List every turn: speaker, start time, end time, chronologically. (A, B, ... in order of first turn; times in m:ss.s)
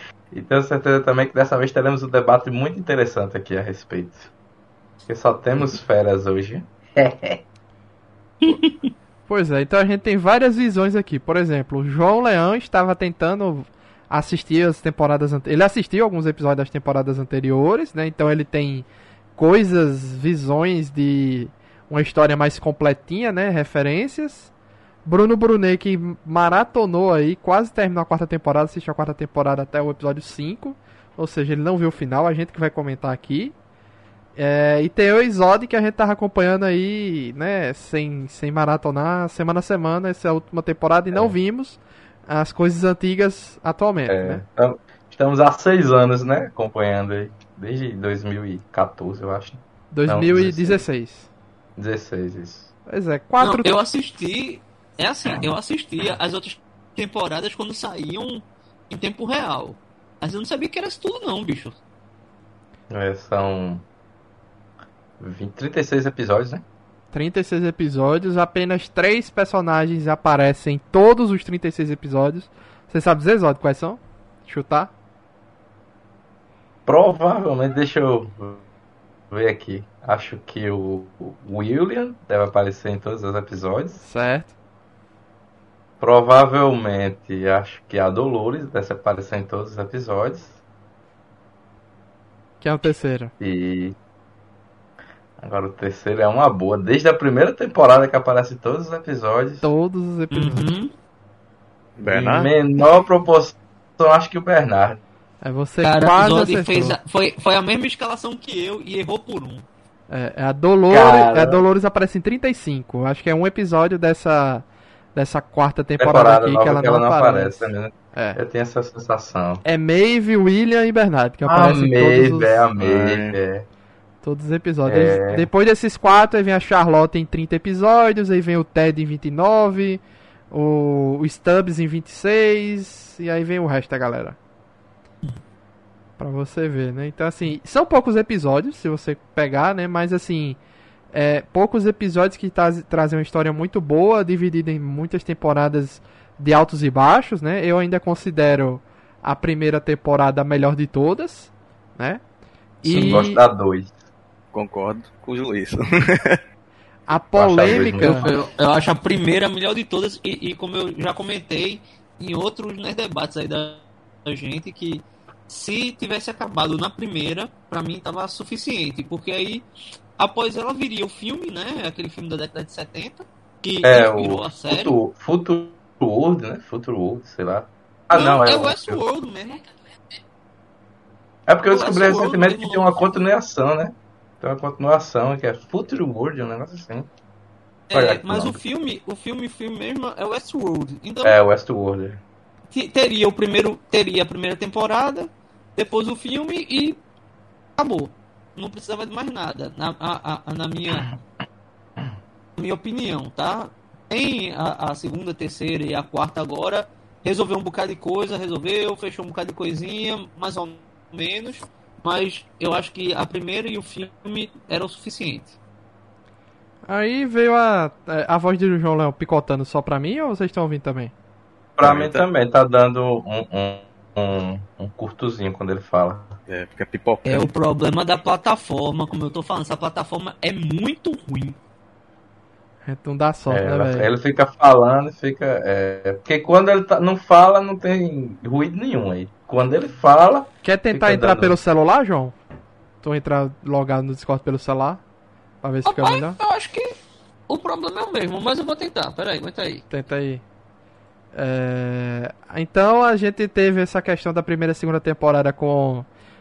0:00.3-0:04.3 A
0:05.1-0:07.4 A
0:08.4-0:08.9 B
0:09.3-0:18.9 C
0:19.4-0:24.5 C
0:25.0-0:33.5 C
0:34.4-0:44.4 C
0:44.1-0:50.8 A
0:49.9-0:51.3 C
0:51.8-0:52.7 A
0:52.9-0:53.7 C
0:53.4-1:01.8 B
1:02.9-1:03.8 A
1:05.2-1:06.6 A
1:07.1-1:14.9 C
1:16.9-1:18.6 A
1:19.3-1:24.0 A
1:24.0-1:24.5 C
1:26.0-1:30.6 A
1:32.6-1:33.3 C
1:33.4-1:34.0 A
1:35.4-1:39.7 A
1:39.6-1:40.7 C
1:40.3-1:40.9 B
1:42.0-1:42.5 D
1:42.1-1:45.0 A
1:45.4-1:47.0 C
1:45.8-1:49.6 B
1:50.1-1:58.4 C
1:50.9-1:51.6 A
1:56.0-1:59.6 A
1:59.6-2:02.7 C
2:01.4-2:03.7 A
2:02.8-2:03.4 D
2:04.2-2:14.4 C
2:04.9-2:05.5 A
2:16.2-2:20.6 C
2:21.1-2:32.2 C
2:32.8-2:33.4 C
2:32.8-2:33.9 A
2:34.5-2:36.4 D
2:37.1-2:38.3 C
2:37.4-2:38.4 A
2:38.0-2:49.6 B
2:50.2-2:55.0 B
2:53.8-2:59.0 A
2:58.1-2:59.6 B
3:01.5-3:07.1 A
3:01.7-3:03.1 B
3:07.9-3:11.4 B
3:07.9-3:08.6 A
3:11.2-3:12.2 A
3:12.7-3:17.0 B
3:17.8-3:21.1 B
3:22.6-3:35.6 B
3:36.9-3:41.1 C
3:41.8-3:46.4 A
3:41.8-3:42.2 D
3:46.5-3:47.5 D
3:47.2-3:51.6 B
3:52.9-3:54.1 C
3:53.5-4:01.6 A
4:00.6-4:02.4 C
4:03.0-4:05.0 C
4:05.6-4:06.4 C
4:05.9-4:06.9 B
4:07.5-4:09.8 B
4:09.9-4:10.4 C
4:11.3-4:16.1 C